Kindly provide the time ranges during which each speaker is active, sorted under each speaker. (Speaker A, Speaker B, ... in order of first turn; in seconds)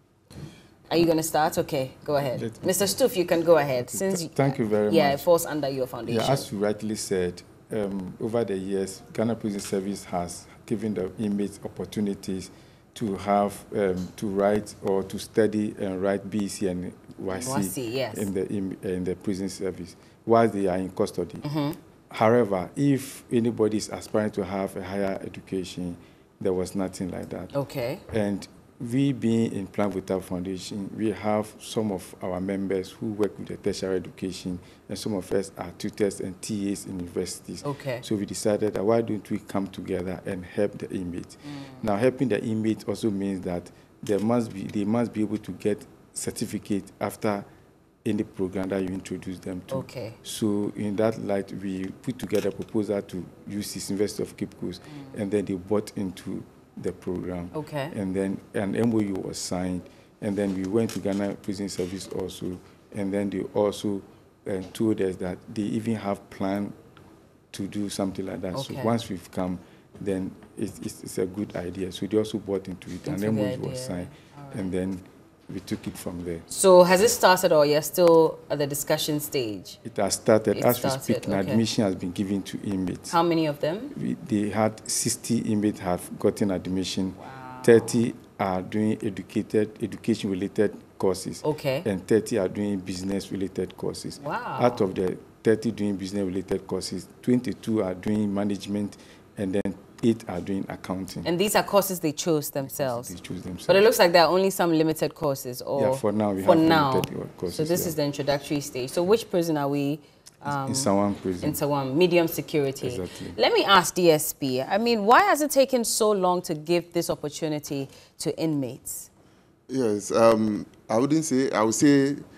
Speaker A: 0.9-6.5, 17.3-18.3, 21.4-21.8, 27.5-28.0, 37.6-38.0, 41.5-41.8, 49.7-50.2, 57.5-57.9, 68.5-68.9, 73.0-74.7, 76.5-79.8, 80.5-81.6, 83.1-83.9, 87.2-87.9, 91.4-91.8, 94.2-94.8, 101.2-103.1, 103.7-119.1
Speaker B: 2.3-3.0, 3.8-5.2, 6.1-21.4, 22.1-27.5, 28.1-47.5, 48.0-66.7, 67.5-76.4, 79.8-83.2, 83.9-101.3, 102.7-103.9, 105.7-108.0, 110.5-111.6, 112.8-113.4
Speaker C: 119.7-122.2